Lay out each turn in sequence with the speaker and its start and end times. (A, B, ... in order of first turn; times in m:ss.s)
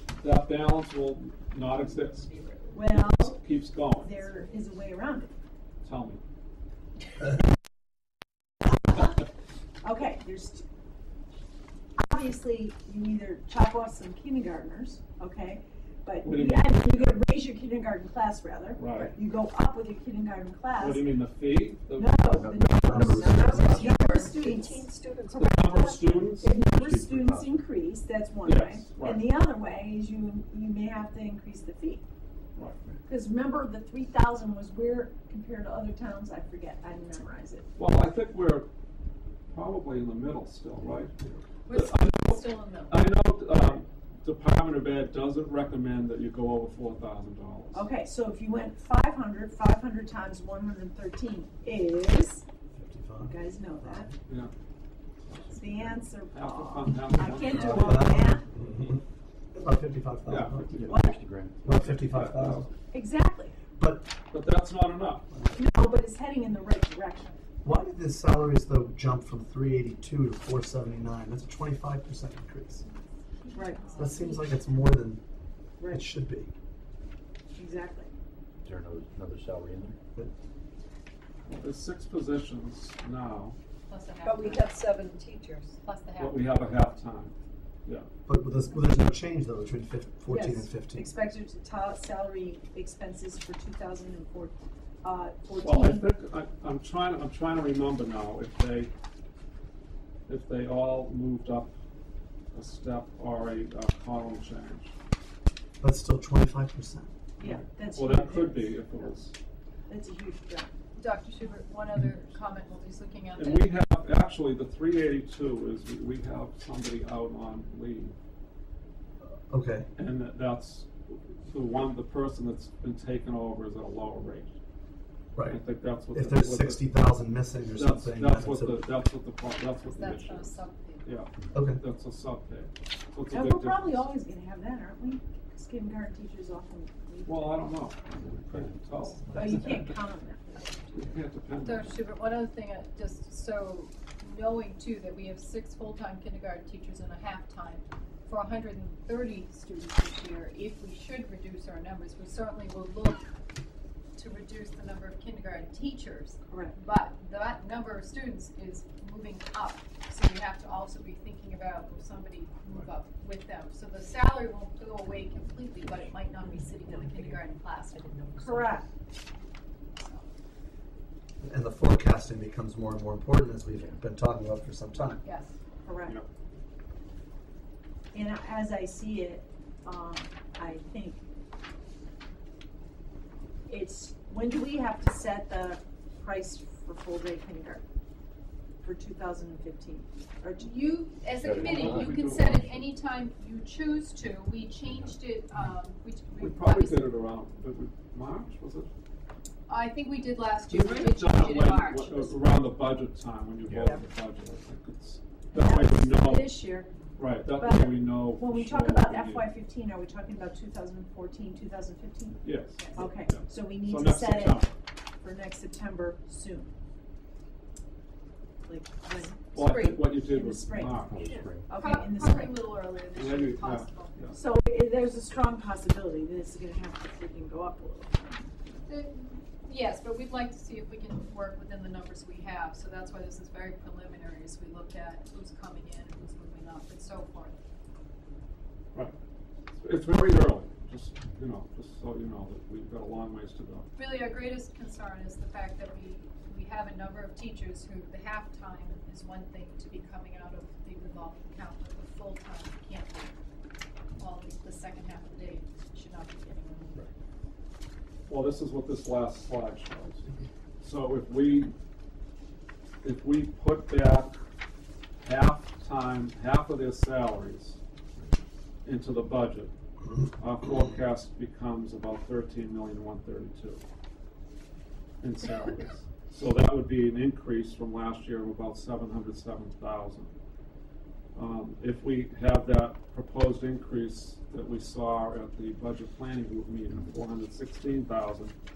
0:00.2-0:04.3 A
0:02.7-0:05.3 B
0:05.8-0:06.2 A
0:09.8-0:10.6 B
0:12.0-0:21.1 B
0:16.2-0:17.2 A
0:18.8-0:19.1 A
0:20.8-0:22.3 A
0:21.9-0:24.8 B
0:22.3-0:23.3 C
0:22.7-0:23.8 D
0:23.5-0:24.9 E
0:25.3-0:26.6 A
0:25.7-0:32.0 B
0:26.4-0:27.6 C
0:28.4-0:29.2 A
0:33.0-0:37.7 B
0:37.8-0:38.7 A
0:39.5-0:47.9 A
0:41.7-0:43.1 F
0:47.7-0:52.4 B
0:52.7-0:54.1 D
0:53.2-0:54.1 B
0:55.3-0:58.4 A
0:55.5-0:58.4 B
0:57.1-0:59.0 D
0:59.5-1:00.7 D
1:00.2-1:01.0 A
1:00.7-1:01.4 C
1:00.8-1:01.2 B
1:01.6-1:02.7 A
1:01.6-1:02.7 D
1:02.9-1:03.6 B
1:03.8-1:04.1 D
1:04.3-1:05.4 A
1:05.5-1:07.4 B
1:07.6-1:12.8 D
1:12.8-1:14.7 F
1:13.5-1:13.9 B
1:14.0-1:15.2 D
1:15.8-1:16.1 B
1:15.9-1:16.5 D
1:17.5-1:18.1 B
1:18.6-1:19.9 C
1:21.5-1:23.6 A
1:23.9-1:24.7 F
1:24.2-1:25.8 E
1:25.8-1:26.5 F
1:26.2-1:27.3 A
1:28.2-1:31.1 D
1:30.3-1:36.1 B
1:35.6-1:38.9 A
1:40.3-1:41.7 A
1:42.5-1:44.9 A
1:45.8-1:47.1 D
1:47.4-1:48.9 B
1:47.4-1:49.3 A
1:49.9-1:50.7 B
1:51.0-1:53.7 F
1:53.4-1:58.1 A
1:59.5-1:59.9 D
2:00.0-2:04.5 A
2:05.3-2:08.8 D
2:05.4-2:06.9 A
2:07.7-2:14.0 A
2:09.8-2:11.1 F
2:11.5-2:11.8 D
2:13.3-2:17.8 B
2:17.2-2:19.9 A
2:19.3-2:21.0 B
2:20.9-2:22.0 A
2:21.6-2:33.2 F
2:34.2-2:48.6 F
2:36.5-2:36.8 B
2:48.4-2:48.9 B
2:50.0-2:50.2 F
2:51.4-2:55.2 D
2:55.2-2:55.5 F
2:55.8-2:56.2 B
2:58.1-3:01.2 B
3:03.7-3:07.8 B
3:08.8-3:10.8 B
3:10.6-3:17.2 F
3:11.4-3:12.2 C
3:11.5-3:12.8 A
3:14.8-3:15.1 C
3:16.4-3:18.9 A
3:19.7-3:22.4 F
3:20.7-3:26.5 A
3:23.7-3:23.9 C
3:25.5-3:26.9 B
3:27.2-3:29.5 A
3:27.5-3:34.7 B
3:32.4-3:34.7 A
3:35.2-3:36.7 B
3:38.6-3:42.6 B
3:39.5-3:41.2 A
3:39.6-3:40.0 E
3:40.8-3:42.3 C
3:41.2-3:44.3 F
3:43.1-3:44.3 A
3:44.3-3:48.6 B
3:48.8-3:57.5 F
3:59.8-4:03.9 A
4:04.0-4:13.4 F
4:14.2-4:17.1 F
4:18.3-4:21.7 A
4:23.0-4:24.3 A
4:25.2-4:27.8 A
4:28.8-4:29.7 A
4:30.2-4:33.8 A
4:35.2-4:40.3 A
4:41.3-4:48.5 A